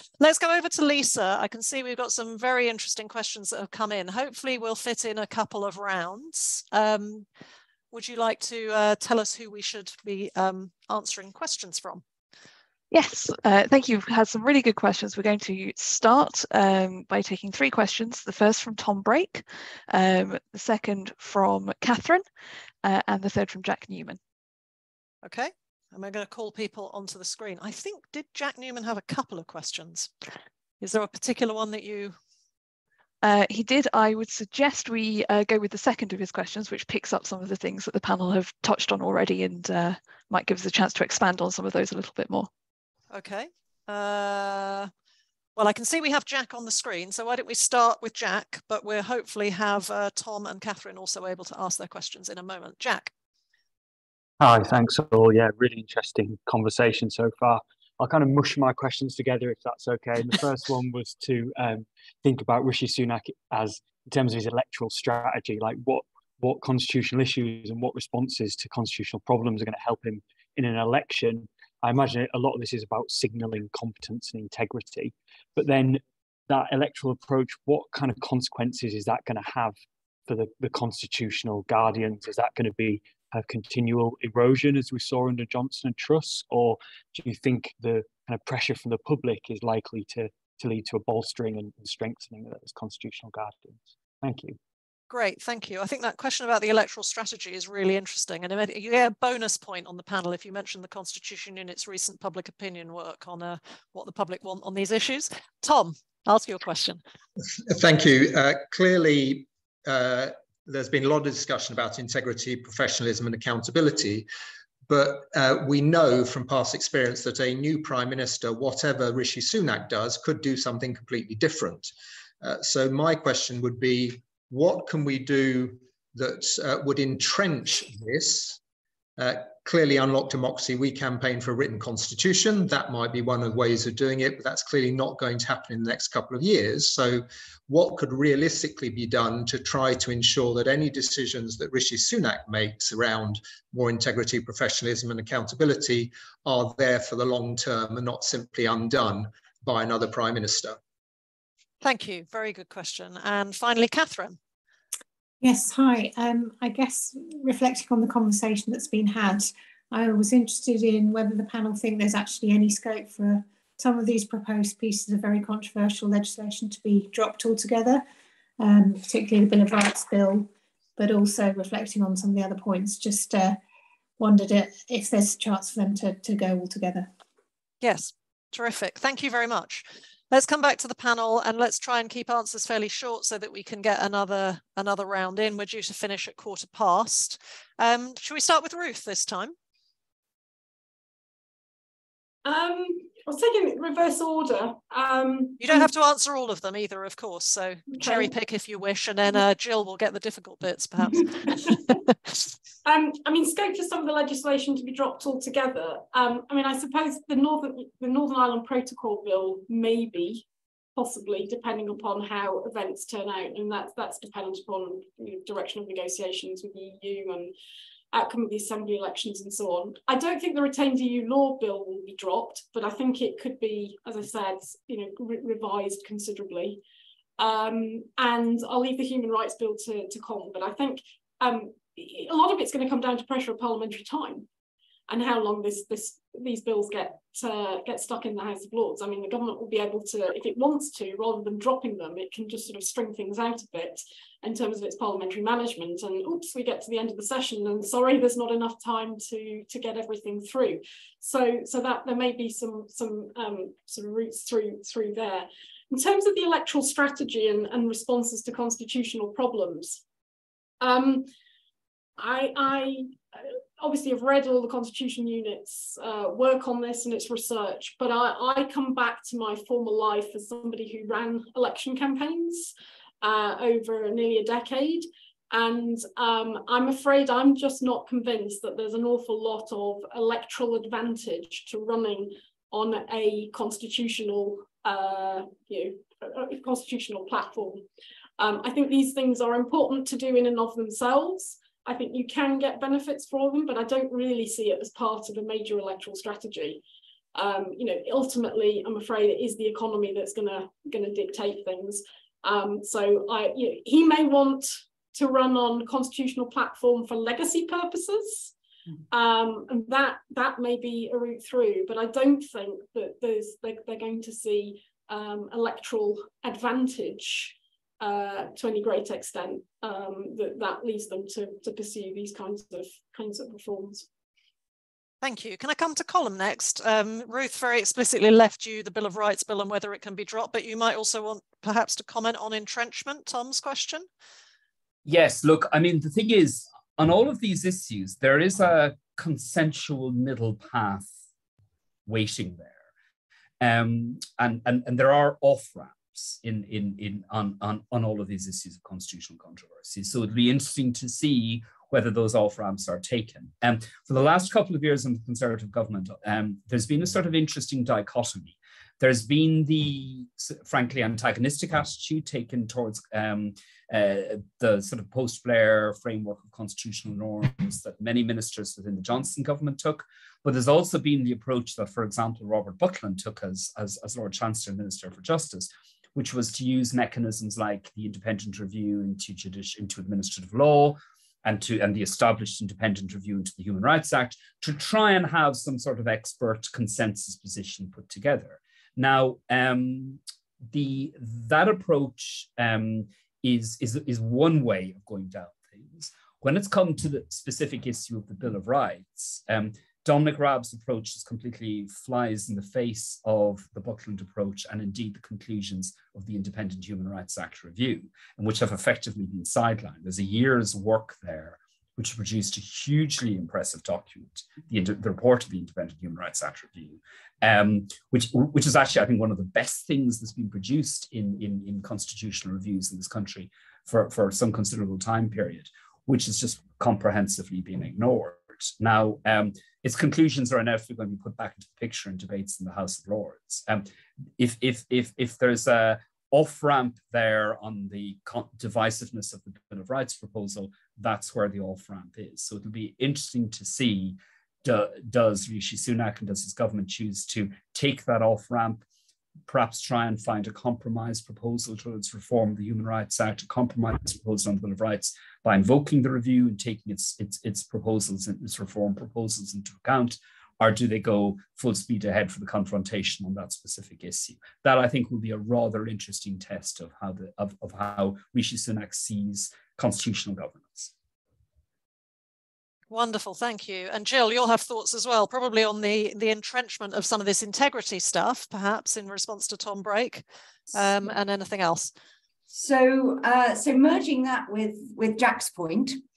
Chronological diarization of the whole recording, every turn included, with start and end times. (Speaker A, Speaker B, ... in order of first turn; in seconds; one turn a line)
Speaker A: 0.2-7.2
Speaker A: 7.9-12.0
Speaker B: 12.9-22.2
Speaker B: 22.8-24.2
Speaker A: 25.2-30.1
Speaker A: 30.8-32.1
Speaker B: 33.2-42.5
Speaker A: 43.1-44.9
Speaker A: 45.5-53.1
Speaker C: 54.4-79.8
Speaker C: 80.3-94.5
Speaker A: 95.1-107.0
Speaker D: 107.6-114.3
Speaker D: 114.9-128.6
Speaker D: 129.2-150.8
Speaker A: 151.8-154.4
Speaker E: 155.4-168.0
Speaker E: 168.6-173.6
Speaker E: 174.2-177.1
Speaker A: 177.8-189.5
Speaker F: 192.4-195.8
Speaker A: 195.6-202.0
Speaker F: 197.9-198.3
Speaker F: 202.8-210.4
Speaker F: 210.9-217.5
Speaker F: 218.1-226.8
Speaker F: 227.4-234.5
Speaker F: 235.1-260.0
Speaker F: 260.8-261.3
Speaker F: 262.2-287.8
Speaker F: 288.4-296.8
Speaker F: 297.3-308.5
Speaker F: 309.1-324.1
Speaker A: 325.2-334.1
Speaker G: 335.1-341.1
Speaker G: 342.1-342.8
Speaker G: 343.6-448.8
Speaker G: 449.5-470.9
Speaker A: 472.9-481.9
Speaker H: 482.5-486.0